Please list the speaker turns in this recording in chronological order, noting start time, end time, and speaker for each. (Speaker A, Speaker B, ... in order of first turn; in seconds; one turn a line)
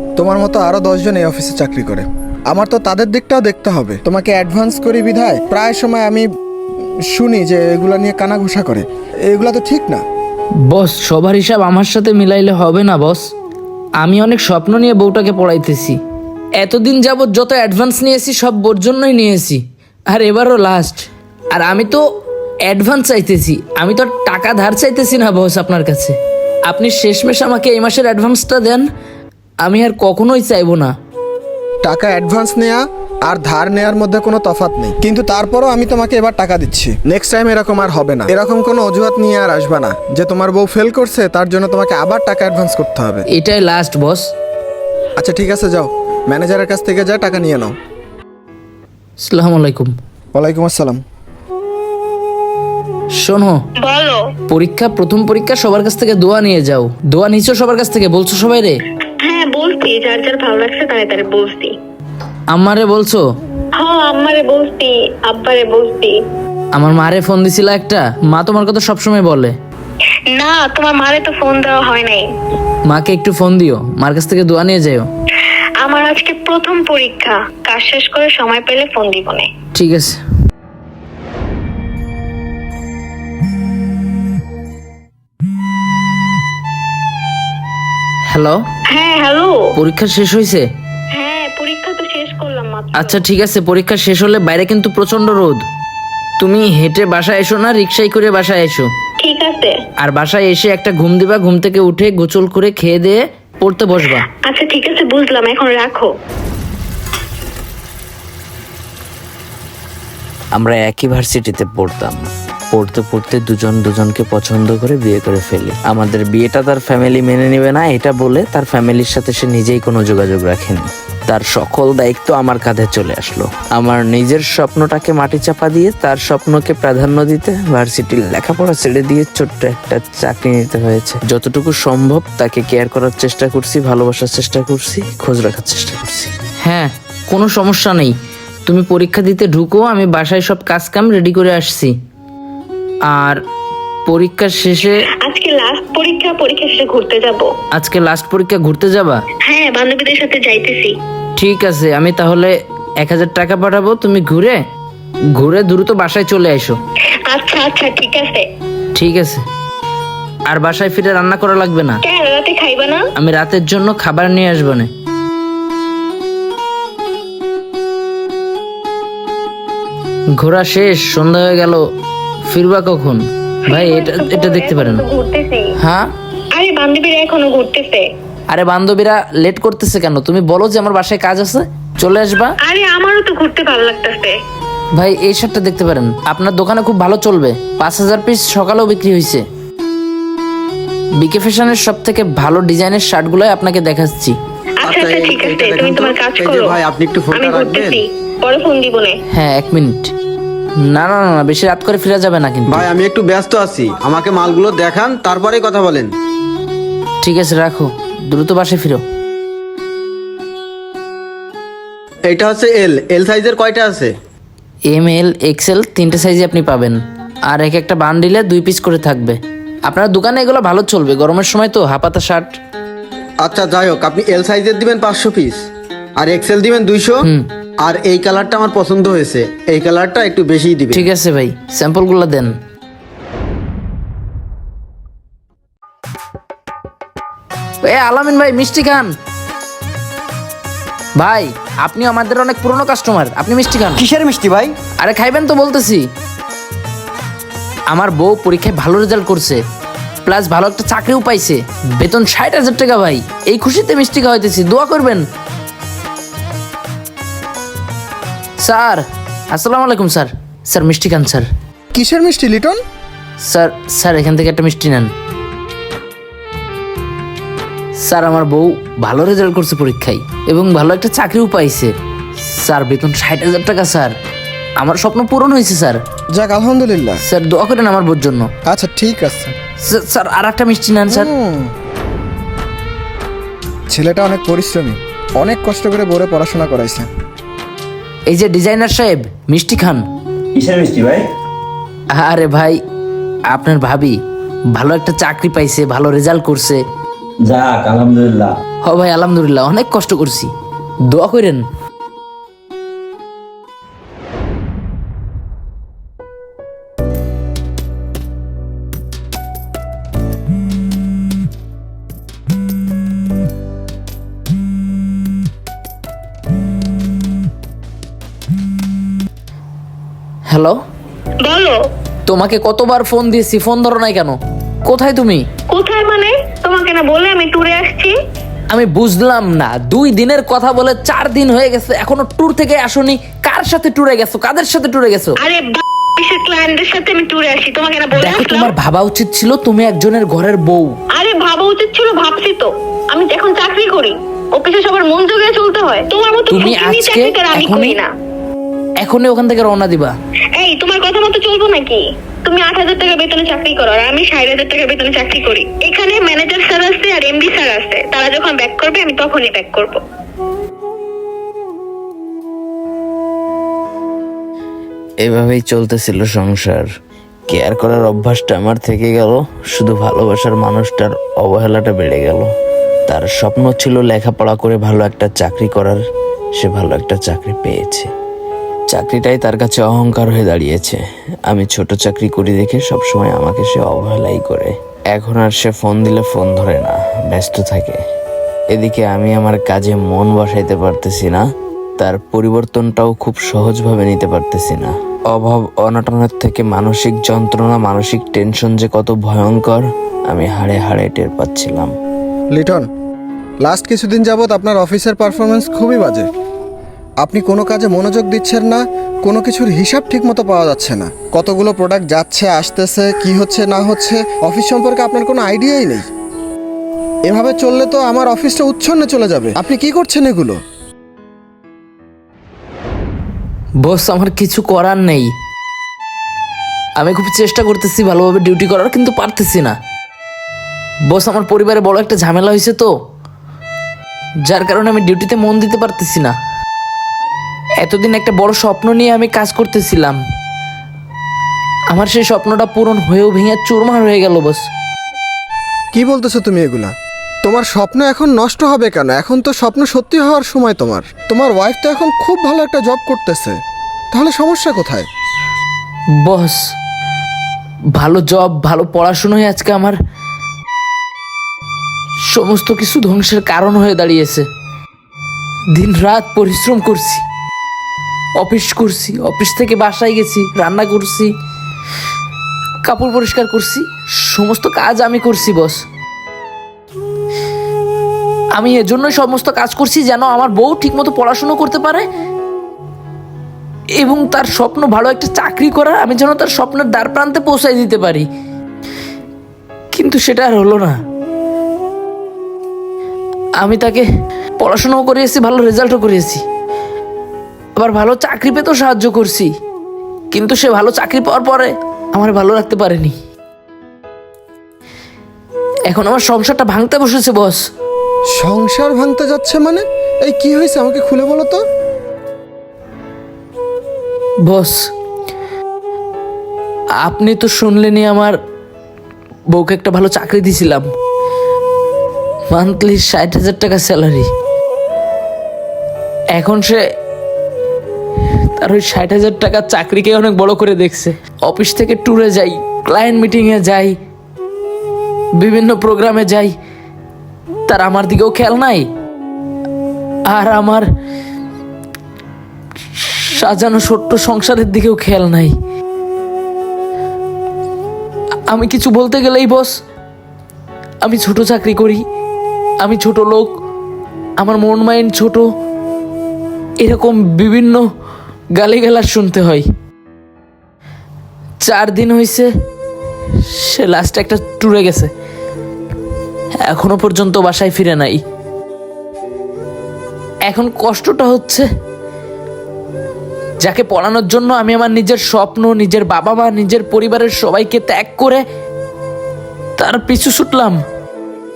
Speaker A: 0.2-6.3
Speaker A: 7.1-10.0
Speaker B: 10.6-13.3
Speaker B: 14.0-16.0
Speaker B: 16.6-22.0
Speaker B: 22.7-28.9
Speaker B: 29.6-30.9
Speaker A: 31.8-43.2
Speaker B: 43.3-44.3
Speaker A: 45.2-47.7
Speaker B: 49.2-49.9
Speaker A: 50.4-51.0
Speaker B: 53.2-53.6
Speaker C: 53.8-54.2
Speaker B: 54.5-58.8
Speaker C: 59.3-61.7
Speaker B: 62.5-63.2
Speaker C: 63.8-66.2
Speaker B: 66.8-69.5
Speaker C: 70.3-72.2
Speaker B: 72.9-75.1
Speaker C: 75.8-79.5
Speaker B: 79.8-80.2
Speaker B: 88.3-88.6
Speaker C: 88.9-89.7
Speaker B: 89.8-90.7
Speaker C: 91.2-93.2
Speaker B: 93.0-95.7
Speaker B: 96.4-98.9
Speaker C: 99.2-99.8
Speaker B: 100.0-104.3
Speaker C: 104.5-106.1
Speaker D: 110.6-136.3
Speaker B: 136.6-138.2
Speaker B: 138.7-141.9
Speaker B: 143.1-143.4
Speaker B: 144.1-145.0
Speaker C: 145.2-147.5
Speaker B: 147.7-149.2
Speaker C: 149.5-150.9
Speaker B: 151.4-154.6
Speaker B: 155.3-156.8
Speaker C: 157.3-158.5
Speaker B: 158.9-159.4
Speaker B: 160.5-162.0
Speaker C: 162.0-163.1
Speaker B: 163.2-164.9
Speaker B: 170.3-171.9
Speaker B: 172.5-175.0
Speaker C: 173.7-175.7
Speaker B: 175.8-176.1
Speaker C: 176.6-178.1
Speaker B: 178.5-182.6
Speaker C: 182.6-184.3
Speaker B: 185.0-189.4
Speaker B: 191.2-194.4
Speaker C: 194.8-196.8
Speaker E: 194.8-198.0
Speaker C: 197.3-199.2
Speaker B: 199.3-200.1
Speaker B: 200.8-202.8
Speaker E: 202.7-206.1
Speaker B: 207.2-209.0
Speaker E: 212.3-214.2
Speaker B: 214.9-222.6
Speaker E: 223.4-225.7
Speaker E: 226.2-227.2
Speaker E: 227.8-231.1
Speaker B: 230.9-232.5
Speaker B: 237.8-239.2
Speaker B: 241.2-244.1
Speaker E: 244.0-244.8
Speaker B: 245.0-246.1
Speaker B: 247.9-249.6
Speaker B: 250.2-255.2
Speaker B: 258.6-261.5
Speaker A: 261.9-262.8
Speaker B: 263.4-265.1
Speaker B: 268.0-274.1
Speaker B: 274.8-276.0
Speaker A: 276.4-277.2
Speaker B: 277.2-278.5
Speaker A: 278.7-279.5
Speaker B: 279.8-281.3
Speaker A: 281.1-281.7
Speaker A: 283.9-287.1
Speaker B: 288.3-290.1
Speaker F: 290.6-291.3
Speaker B: 292.1-292.8
Speaker B: 293.5-294.2
Speaker B: 294.7-296.8
Speaker F: 297.4-298.6
Speaker B: 298.8-300.5
Speaker B: 301.1-301.6
Speaker B: 320.5-320.8
Speaker C: 321.4-321.8
Speaker B: 322.3-325.4
Speaker C: 325.7-328.2
Speaker B: 328.7-335.4
Speaker C: 335.4-338.7
Speaker B: 338.1-341.0
Speaker C: 341.1-348.1
Speaker B: 346.5-348.0
Speaker B: 349.0-350.1
Speaker C: 350.6-360.0
Speaker D: 365.2-366.9
Speaker D: 367.5-372.5
Speaker D: 373.1-376.0
Speaker D: 376.6-378.1
Speaker D: 378.9-388.0
Speaker D: 388.7-391.4
Speaker D: 392.0-401.9
Speaker A: 402.5-402.9
Speaker A: 403.6-406.3
Speaker A: 407.2-416.1
Speaker A: 417.3-420.6
Speaker B: 423.8-425.3
Speaker B: 427.0-429.8
Speaker B: 431.1-432.9
Speaker B: 434.4-436.4
Speaker B: 437.8-440.2
Speaker B: 441.9-444.7
Speaker A: 445.9-446.9
Speaker A: 447.4-453.6
Speaker A: 454.1-455.1
Speaker B: 456.2-456.7
Speaker B: 457.9-460.0
Speaker B: 462.3-464.5
Speaker B: 465.7-467.2
Speaker B: 468.4-471.3
Speaker B: 472.8-475.8
Speaker B: 478.6-482.1
Speaker B: 484.0-488.3
Speaker B: 489.9-491.0
Speaker B: 493.6-494.1
Speaker B: 494.6-496.4
Speaker B: 497.8-499.5
Speaker B: 500.3-503.2
Speaker B: 505.9-507.6
Speaker A: 508.3-511.6
Speaker B: 514.4-514.9
Speaker B: 517.0-518.4
Speaker B: 519.5-520.9
Speaker B: 522.5-524.3
Speaker B: 526.3-526.8
Speaker B: 528.5-534.0
Speaker B: 535.4-536.5
Speaker B: 537.7-538.9
Speaker B: 540.3-540.9
Speaker B: 542.9-545.5
Speaker B: 548.5-549.7
Speaker B: 551.0-552.0
Speaker B: 552.8-553.5
Speaker B: 554.4-555.5
Speaker B: 556.8-557.8
Speaker B: 558.6-559.7
Speaker B: 561.6-562.5
Speaker B: 563.4-565.1
Speaker B: 566.6-568.2
Speaker B: 570.5-571.7
Speaker B: 573.6-578.4
Speaker B: 579.8-580.8